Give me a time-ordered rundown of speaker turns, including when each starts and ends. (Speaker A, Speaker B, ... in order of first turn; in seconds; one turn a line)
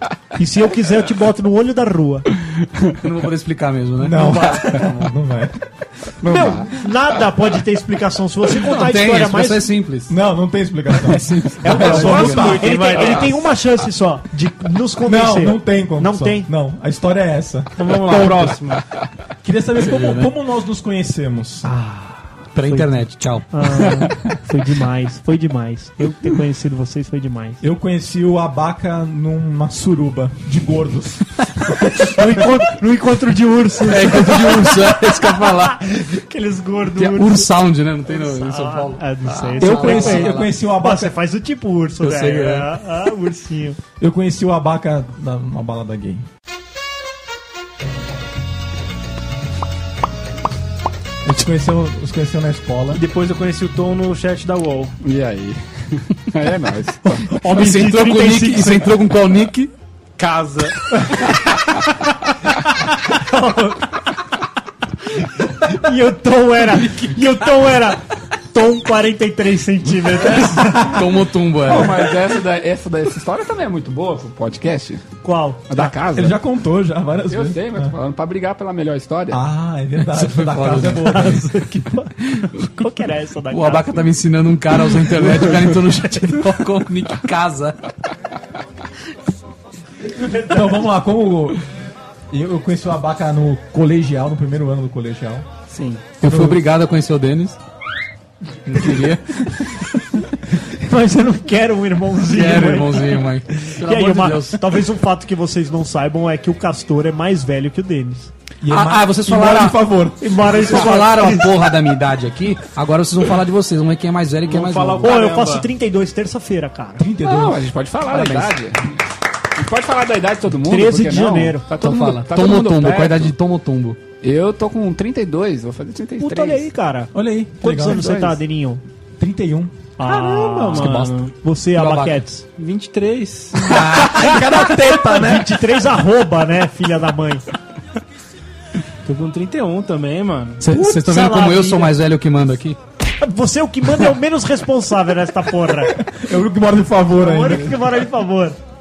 Speaker A: 0.4-2.3
Speaker B: 3.0-4.9
Speaker C: 4.0-5.6
Speaker A: 4.2-4.8
Speaker D: 6.2-6.7
Speaker A: 6.3-9.7
Speaker B: 8.6-10.2
Speaker C: 10.1-12.8
Speaker B: 11.0-12.6
Speaker A: 11.6-16.5
Speaker E: 11.9-13.5
Speaker C: 15.0-18.6
Speaker E: 17.8-18.8
Speaker C: 19.4-21.7
Speaker B: 19.8-20.3
Speaker B: 21.8-24.0
Speaker A: 23.5-27.6
Speaker C: 27.6-32.0
Speaker A: 32.0-37.5
Speaker B: 33.9-35.9
Speaker B: 37.0-40.5
Speaker A: 38.1-43.8
Speaker C: 39.6-41.1
Speaker B: 42.0-42.7
Speaker C: 44.0-46.2
Speaker C: 51.2-53.0
Speaker E: 52.9-54.9
Speaker D: 55.0-57.2
Speaker A: 57.0-58.9
Speaker B: 57.4-59.7
Speaker E: 60.2-61.0
Speaker A: 63.1-63.8
Speaker A: 65.2-71.0
Speaker B: 70.6-72.0
Speaker D: 71.7-75.1
Speaker A: 75.2-75.9
Speaker D: 75.7-76.4
Speaker C: 76.1-78.0
Speaker D: 77.3-79.4
Speaker C: 79.3-81.5
Speaker B: 80.1-81.4
Speaker A: 81.0-84.1
Speaker B: 83.5-87.8
Speaker A: 90.2-90.6
Speaker C: 90.5-91.6
Speaker C: 92.3-95.5
Speaker A: 95.7-96.0
Speaker B: 96.2-97.6
Speaker C: 96.2-96.6
Speaker B: 98.7-99.2
Speaker A: 100.5-108.3
Speaker B: 102.2-104.7
Speaker C: 108.6-110.6
Speaker B: 108.7-109.8
Speaker A: 110.2-111.5
Speaker B: 110.6-115.2
Speaker E: 114.5-115.7
Speaker A: 115.0-117.0
Speaker C: 117.0-117.6
Speaker D: 117.2-118.9
Speaker B: 118.1-118.5
Speaker D: 119.5-123.3
Speaker A: 120.6-121.7
Speaker B: 121.8-124.0
Speaker D: 124.2-126.7
Speaker A: 126.2-128.8
Speaker C: 127.1-128.1
Speaker D: 127.8-128.4
Speaker C: 129.2-129.7
Speaker A: 130.0-132.4
Speaker E: 130.0-131.3
Speaker B: 130.7-131.2
Speaker B: 131.8-132.2
Speaker E: 132.6-133.8
Speaker B: 133.7-134.3
Speaker C: 133.8-135.6
Speaker A: 134.9-137.4
Speaker E: 139.1-140.7
Speaker B: 140.6-142.8
Speaker A: 140.7-141.9
Speaker A: 143.2-146.1
Speaker C: 145.9-147.8
Speaker A: 147.2-148.6